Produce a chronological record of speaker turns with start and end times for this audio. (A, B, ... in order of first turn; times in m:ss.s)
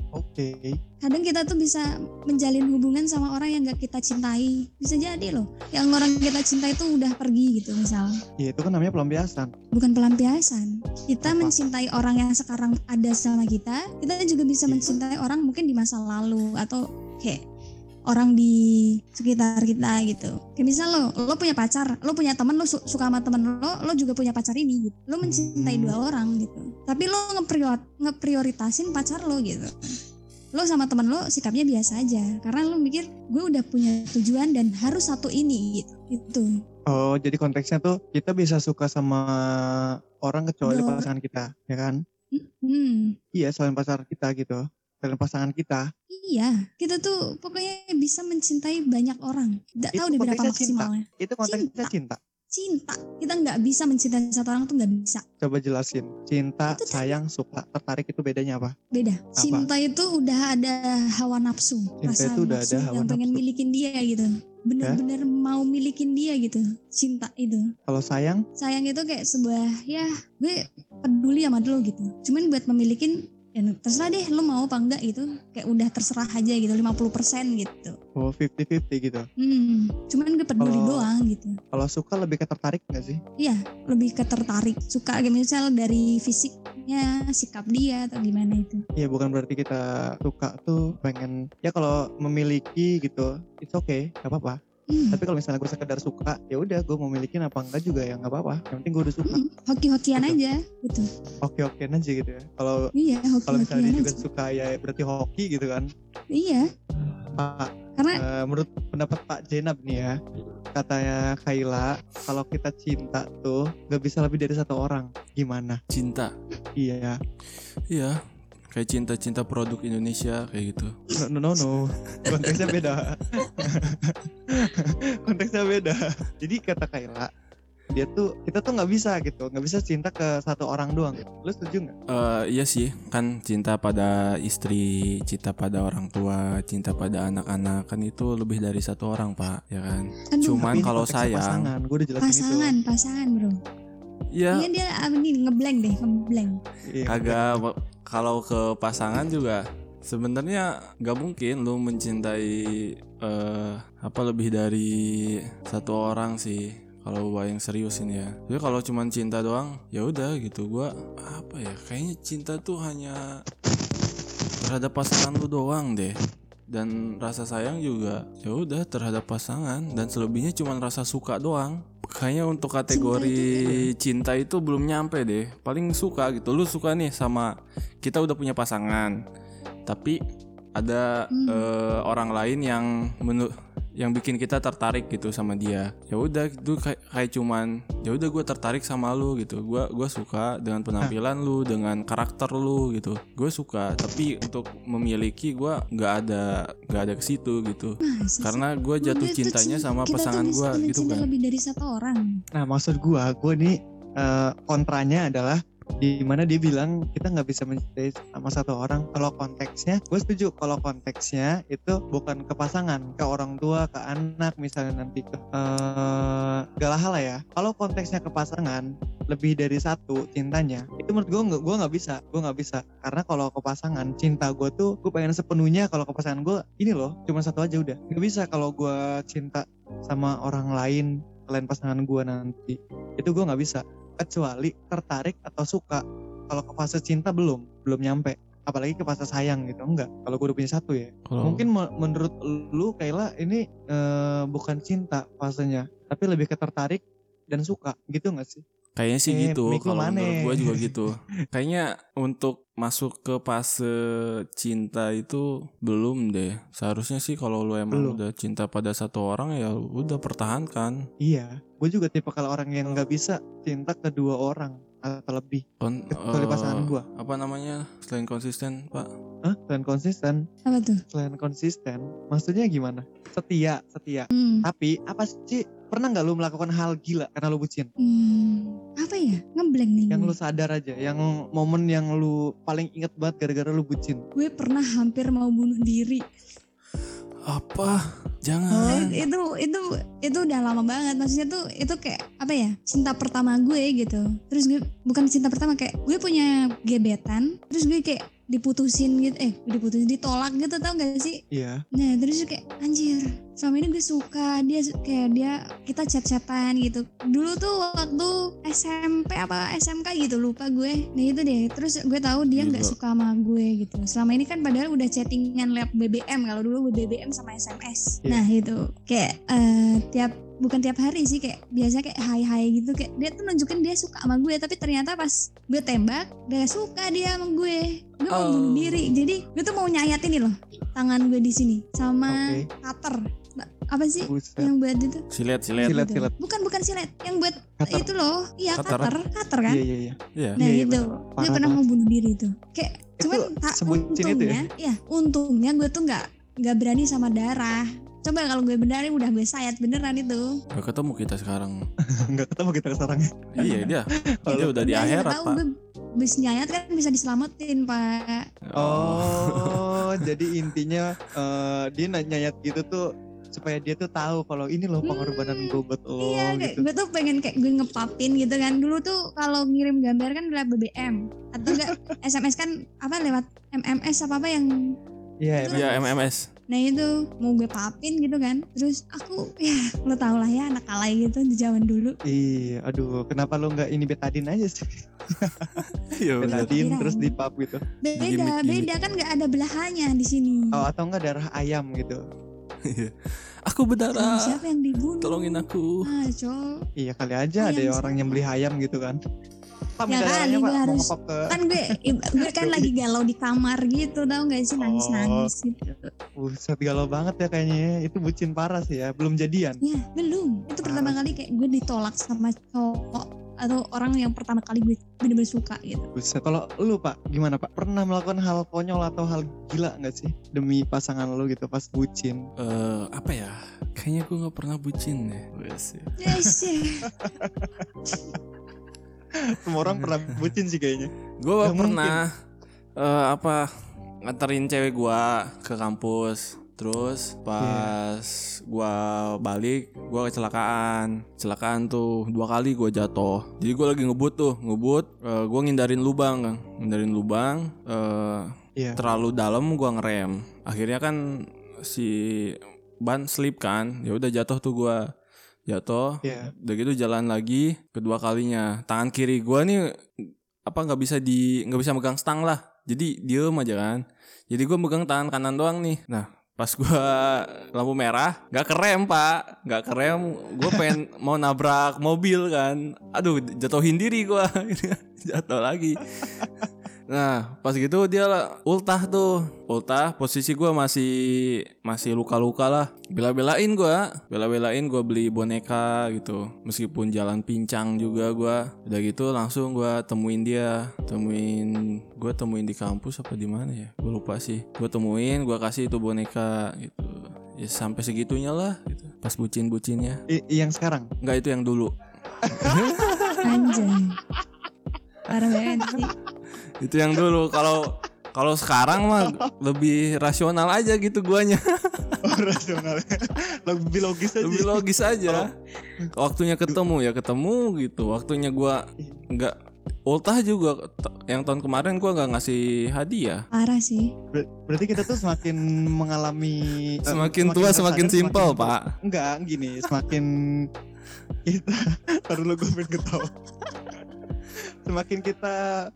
0:00.1-0:00.8 A
0:01.0-0:08.2 B
0:08.4-0:09.5 A
0:09.7-0:17.4 B
0:11.2-0:11.5 A
0:14.7-0:15.0 A
0:18.1-0:29.8 B
0:25.2-0:26.0 A
0:30.6-0:36.5 B
0:36.9-0:42.0 A
0:40.6-0:41.1 B
0:42.3-0:43.2 B
0:43.3-0:45.9 A
0:46.1-0:51.9 B
0:49.9-0:52.2 A
0:52.5-0:55.2 B
0:55.4-0:58.7 A
0:56.7-0:57.2 B
0:58.9-1:07.7 B
0:59.4-0:59.7 A
1:02.0-1:03.4 A
1:07.9-1:08.4 A
1:08.6-1:18.0 B
1:18.2-1:19.3 A
1:19.4-1:21.6 B
1:20.6-1:21.1 A
1:21.7-1:23.2 A
1:23.4-1:28.8 B
1:29.0-1:34.6 A
1:34.9-1:35.2 B
1:35.1-1:39.4 A
1:39.2-1:41.1 B
1:41.4-1:42.8 A
1:43.0-1:44.2 B
1:43.5-1:45.9 A
1:46.3-1:46.7 B
1:47.3-1:50.2 A
1:48.0-1:48.2 B
1:50.7-1:55.8 A
1:55.9-1:56.3 C
1:56.8-1:57.2 A
1:57.9-1:58.2 C
1:58.7-2:01.0 C
2:01.1-2:07.3 A
2:02.2-2:02.8 C
2:07.9-2:11.9 A
2:12.1-2:21.7 C
2:20.3-2:20.7 B
2:20.5-2:22.8 A
2:22.2-2:23.6 B
2:24.3-2:24.7 C
2:24.5-2:26.6 B
2:26.9-2:27.6 A
2:27.1-2:43.2 C
2:44.6-2:46.2 C
2:46.7-2:57.5 C
2:52.9-2:53.9 B
2:58.0-2:59.1 C
2:59.9-3:00.2 C
3:00.8-3:21.3 C
3:01.3-3:01.7 B
3:18.0-3:22.4 B
3:22.6-4:08.6 A
4:01.3-4:01.7 C
4:09.0-4:21.0 C
4:09.3-4:11.0 A
4:17.9-4:18.2 A
4:21.2-4:27.0 A
4:25.8-4:29.1 C
4:29.4-4:30.4 A
4:30.7-4:31.0 B
4:31.1-4:37.9 A
4:34.3-4:34.7 B
4:38.0-4:40.3 B
4:40.1-4:44.2 A
4:44.4-4:46.2 B
4:47.5-4:49.2 C
4:48.7-4:49.2 A
4:48.8-5:01.4 B
5:01.5-5:01.8 A
5:01.9-5:35.2 B
5:12.6-5:13.0 C
5:28.3-5:29.1 C
5:32.3-5:32.7 A
5:34.3-5:34.7 A
5:35.3-5:36.0 C
5:35.8-5:39.8 B
5:35.8-5:36.3 A
5:37.8-5:38.1 A
5:38.8-5:39.1 A
5:38.8-5:39.1 C
5:39.7-5:41.8 A
5:40.6-5:50.6 B
5:43.2-5:44.6 A
5:50.7-5:51.8 C
5:52.2-5:55.2 A
5:53.6-5:55.6 C
5:53.6-5:53.9 B
5:54.5-5:58.5 B
5:58.7-6:00.4 C
5:58.8-6:06.9 A
6:05.0-6:14.7 B
6:11.7-6:12.1 A
6:15.4-6:16.2 A
6:15.6-6:16.0 B
6:15.7-6:16.5 C
6:16.7-6:22.2 B
6:22.3-6:25.8 A
6:25.8-6:26.7 C
6:26.4-6:27.8 A
6:26.5-6:27.3 B
6:28.0-6:30.8 B
6:28.2-6:28.9 C
6:30.8-6:32.2 A
6:32.9-6:34.6 C
6:34.1-6:36.7 B
6:35.2-6:36.1 C
6:37.0-6:39.2 A
6:37.6-6:38.4 B
6:40.0-6:42.9 A
6:40.1-6:46.1 B
6:44.8-6:45.5 A
6:46.4-6:49.8 A
6:49.8-6:56.1 B
6:50.8-6:51.4 A
6:56.2-7:02.4 A
7:02.6-7:06.6 C
7:06.2-7:07.1 B
7:07.1-7:08.4 A
7:09.5-7:12.2 A
7:09.8-7:10.4 C
7:11.4-7:12.3 C
7:13.0-7:13.7 C
7:14.2-7:28.4 C
7:17.6-7:17.9 A
7:29.0-7:31.2 C
7:31.8-7:35.0 C
7:35.7-7:56.5 C
7:36.2-7:36.5 A
7:57.1-8:20.2 C
8:20.3-8:21.1 A
8:21.2-8:21.9 C
8:22.4-8:22.9 A
8:22.6-8:23.6 C
8:23.4-8:24.2 B
8:25.3-8:26.1 B
8:25.7-8:26.0 A
8:26.8-8:32.2 C
8:32.2-8:35.5 A
8:34.4-8:35.5 C
8:36.2-8:39.6 C
8:40.1-8:43.4 C
8:43.5-8:44.1 B
8:44.3-8:50.7 A
8:47.0-8:48.9 C
8:51.5-8:53.3 A
8:54.9-8:55.6 A